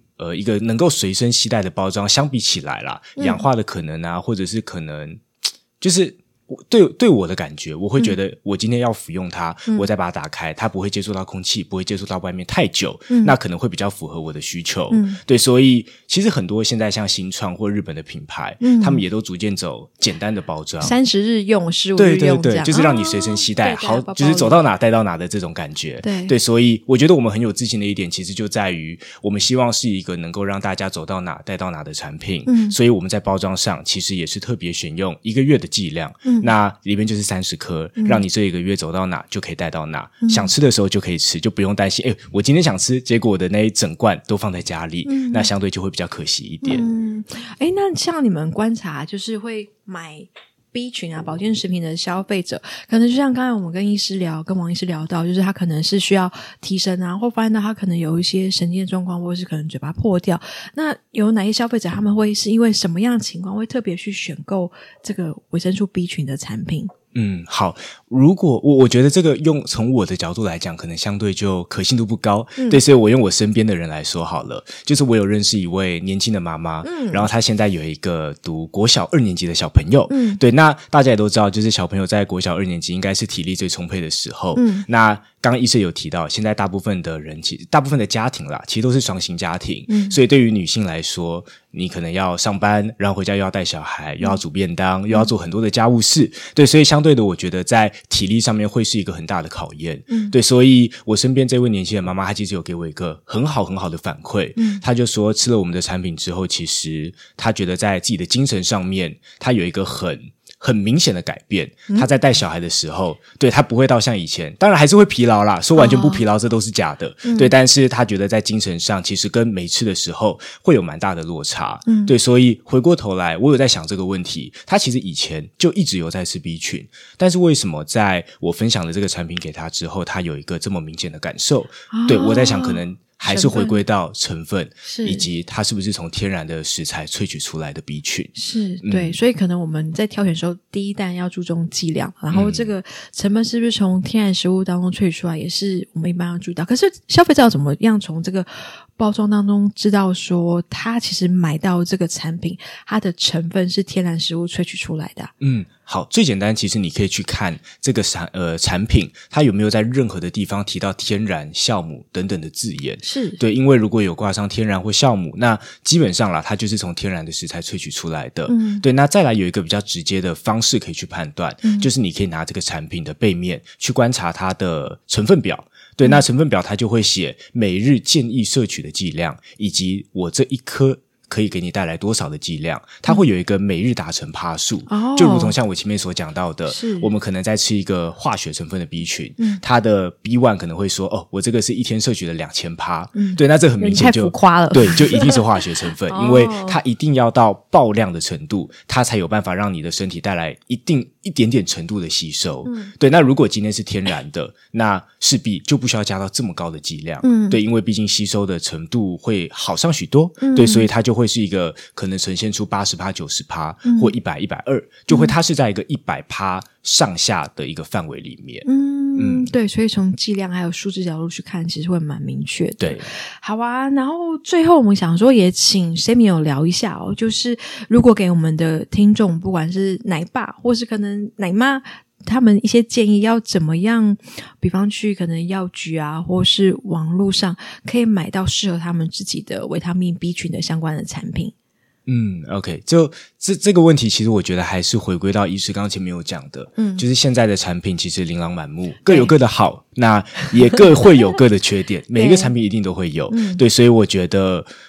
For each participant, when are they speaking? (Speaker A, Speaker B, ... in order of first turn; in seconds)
Speaker A: 0.2-21.0, 22.0-46.9, 67.1-139.2, 142.3-142.7, 155.4-219.5, 222.8-223.1, 242.1-254.7
Speaker B: 3.2-3.5, 13.1-13.3, 14.9-15.2, 18.6-19.0, 20.8-24.6, 26.0-26.4, 32.5-32.8, 36.2-36.5, 38.0-38.2, 40.2-40.5, 45.0-45.5, 46.6-66.9, 72.6-72.8, 76.8-77.3, 80.1-80.4, 84.5-84.8, 89.9-90.2, 100.1-100.3, 104.6-104.8, 115.8-116.2, 117.2-117.5, 121.8-122.2, 131.9-133.8, 134.8-135.3, 138.3-155.3, 163.0-163.4, 168.5-168.8, 171.6-171.9, 184.9-185.6, 186.7-187.1, 193.2-195.4, 196.1-196.8, 202.6-202.9, 207.2-207.6, 210.4-210.9, 213.8-214.1, 215.1-215.3, 218.7-241.5, 246.8-247.1, 249.1-249.3, 252.1-252.5, 253.3-253.6